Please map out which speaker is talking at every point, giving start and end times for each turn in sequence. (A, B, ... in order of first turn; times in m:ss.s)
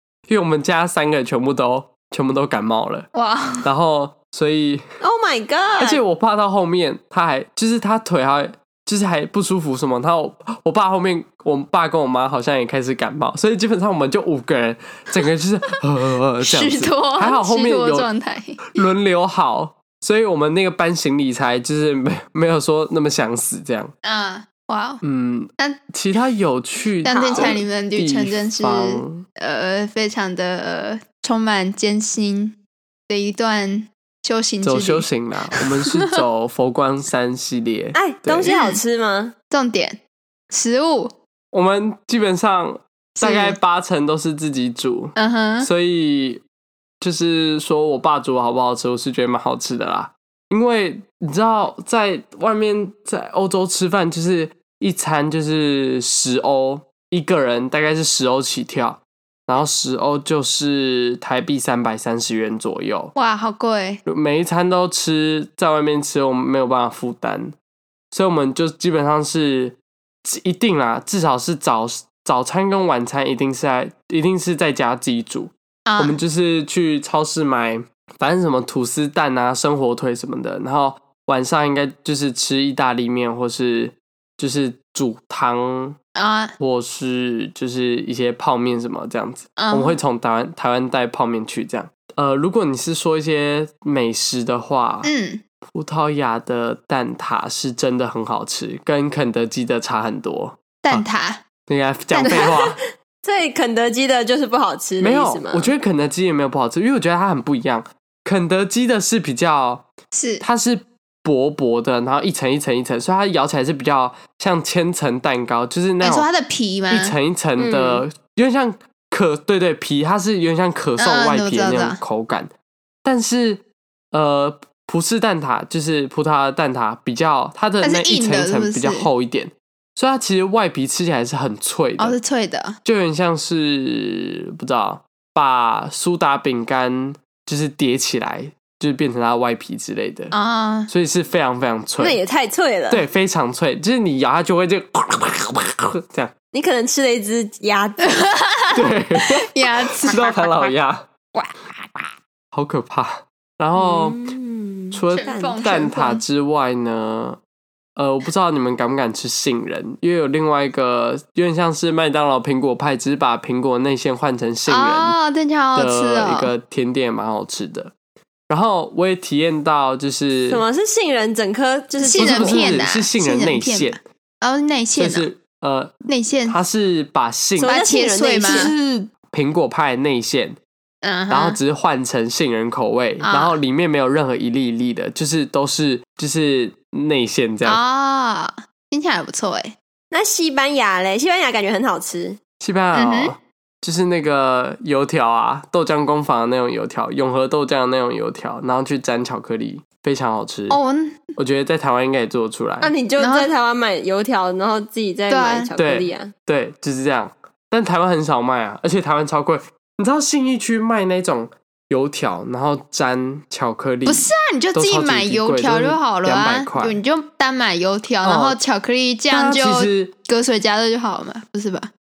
0:00.3-0:03.1 A
0:03.1-0:03.7 B
0:03.6-0:04.8 A
0:05.0-0:06.0 C
0:05.8-0:18.1 A
0:16.4-0:18.8 B
0:18.7-0:23.9 A
0:24.0-0:25.0 B
0:25.0-0:29.2 A
0:27.0-0:32.6 B
0:27.0-0:27.6 C
0:33.1-0:36.2 B
0:34.6-0:38.5 A
0:37.9-0:39.3 C
0:38.5-0:38.8 B
0:39.5-0:40.0 B
0:40.5-0:41.1 B
0:41.5-0:46.4 A
0:43.2-0:43.6 B
0:45.2-0:45.7 B
0:47.0-1:03.1 A
1:03.2-1:04.0 B
1:04.0-1:07.5 A
1:08.1-1:26.0 A
1:15.9-1:16.2 B
1:26.2-1:26.5 B
1:26.6-1:35.1 A
1:29.6-1:30.0 B
1:35.0-1:35.4 B
1:35.7-1:41.0 A
1:40.8-1:41.4 B
1:41.7-1:42.8 A
1:42.1-1:42.6 B
1:42.3-1:42.6 C
1:43.2-1:45.7 C
1:45.0-1:49.9 A
1:50.1-1:50.4 B
1:50.4-1:56.3 A
1:56.0-1:57.1 B
1:56.9-2:02.5 A
1:57.6-1:58.0 C
2:01.0-2:02.0 B
2:03.0-2:12.2 A
2:07.8-2:09.1 B
2:12.0-2:12.8 B
2:12.8-2:20.3 A
2:20.3-2:20.9 B
2:20.9-2:22.2 A
2:22.0-2:23.0 C
2:22.9-2:26.3 A
2:26.5-2:28.2 C
2:28.0-2:30.5 B
2:28.7-2:29.5 A
2:30.0-2:31.0 A
2:31.3-2:32.0 C
2:32.5-2:34.2 A
2:33.7-2:35.6 C
2:34.9-2:37.4 A
2:35.1-2:36.2 B
2:38.0-2:45.2 A
2:44.7-2:46.5 B
2:45.8-2:47.9 A
2:48.5-2:50.6 A
2:50.5-2:52.7 C
2:52.0-2:55.2 B
2:52.2-2:54.0 A
2:55.0-2:55.9 A
2:56.1-2:56.6 B
2:56.5-2:57.7 A
2:57.6-2:58.7 C
2:57.6-2:58.7 B
2:58.4-3:00.6 A
3:01.0-3:01.6 B
3:01.3-3:07.8 A
3:03.2-3:03.6 B
3:07.6-3:09.8 B
3:10.1-3:12.4 C
3:12.6-3:20.8 A
3:12.9-3:13.3 B
3:20.7-3:21.3 B
3:21.4-3:22.9 A
3:22.8-3:26.3 C
3:23.2-3:23.5 B
3:25.3-3:25.7 B
3:25.8-3:37.0 A
3:34.0-3:41.9 B
3:38.2-3:38.6 A
3:39.3-3:40.1 A